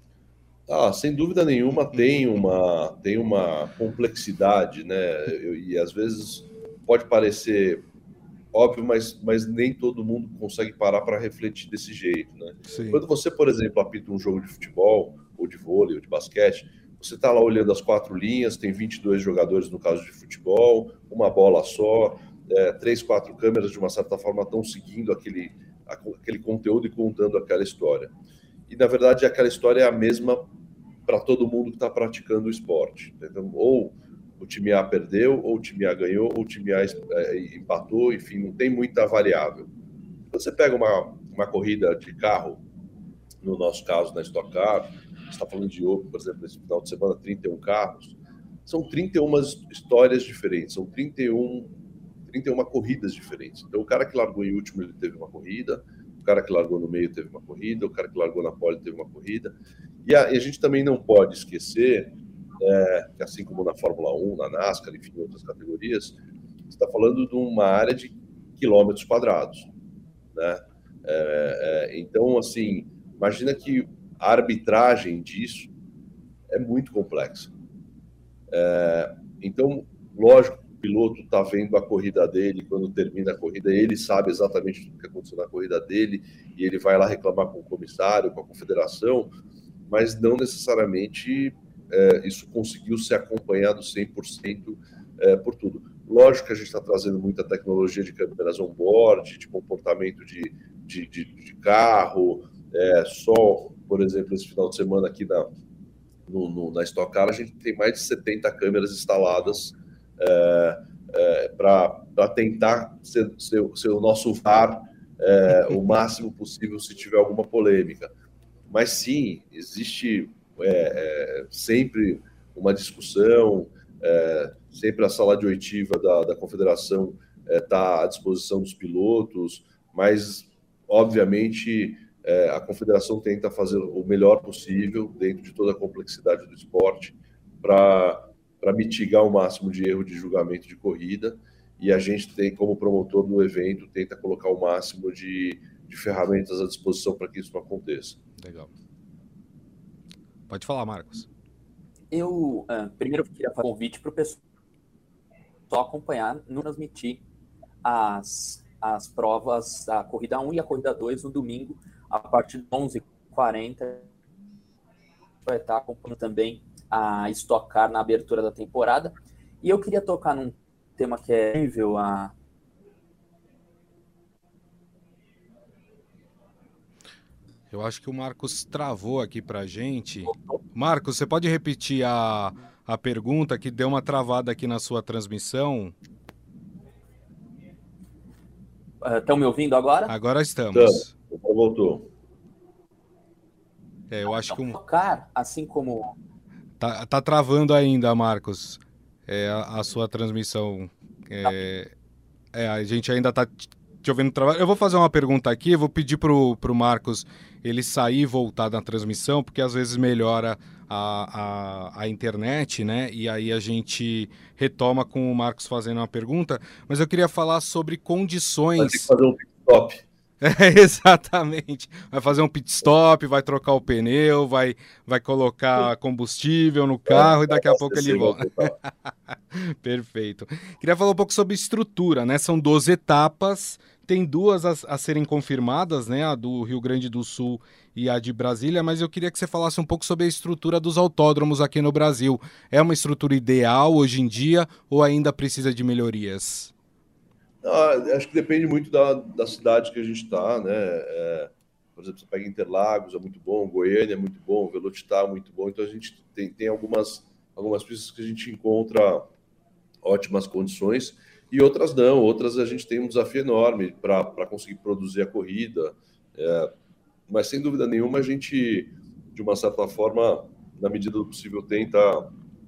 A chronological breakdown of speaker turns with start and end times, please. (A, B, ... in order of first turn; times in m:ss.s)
0:00.7-0:07.8 A
0:08.5-0:28.1 A
0:12.7-0:13.0 B
0:28.7-0:30.4 A
0:31.1-0:39.7 A
0:40.3-0:42.6 A
0:43.4-0:51.7 A
0:52.3-0:59.5 A
1:00.0-1:06.2 A
1:06.7-1:09.7 A
1:10.3-1:15.7 A
1:16.5-1:17.5 A
1:18.5-1:29.3 A
1:29.9-1:45.5 A
1:46.3-1:58.1 A
1:58.7-2:28.2 A
2:28.4-2:28.7 B
2:30.5-2:31.2 B
2:32.1-2:34.4 C
2:35.7-2:37.2 C
2:37.8-2:44.1 C
2:45.4-2:52.3 C
2:57.7-3:05.9 B
3:09.0-3:10.1 C
3:10.1-3:11.1 B
3:10.7-3:12.1 A
3:14.1-3:14.8 B
3:14.2-3:16.1 C
3:16.8-3:21.9 B
3:22.5-3:39.1 B
3:38.8-3:40.0 A
3:40.4-3:48.9 B
3:47.1-3:48.7 A
3:49.5-4:06.7 B
4:07.6-4:19.3 A
4:20.0-4:26.7 A
4:27.3-4:32.3 A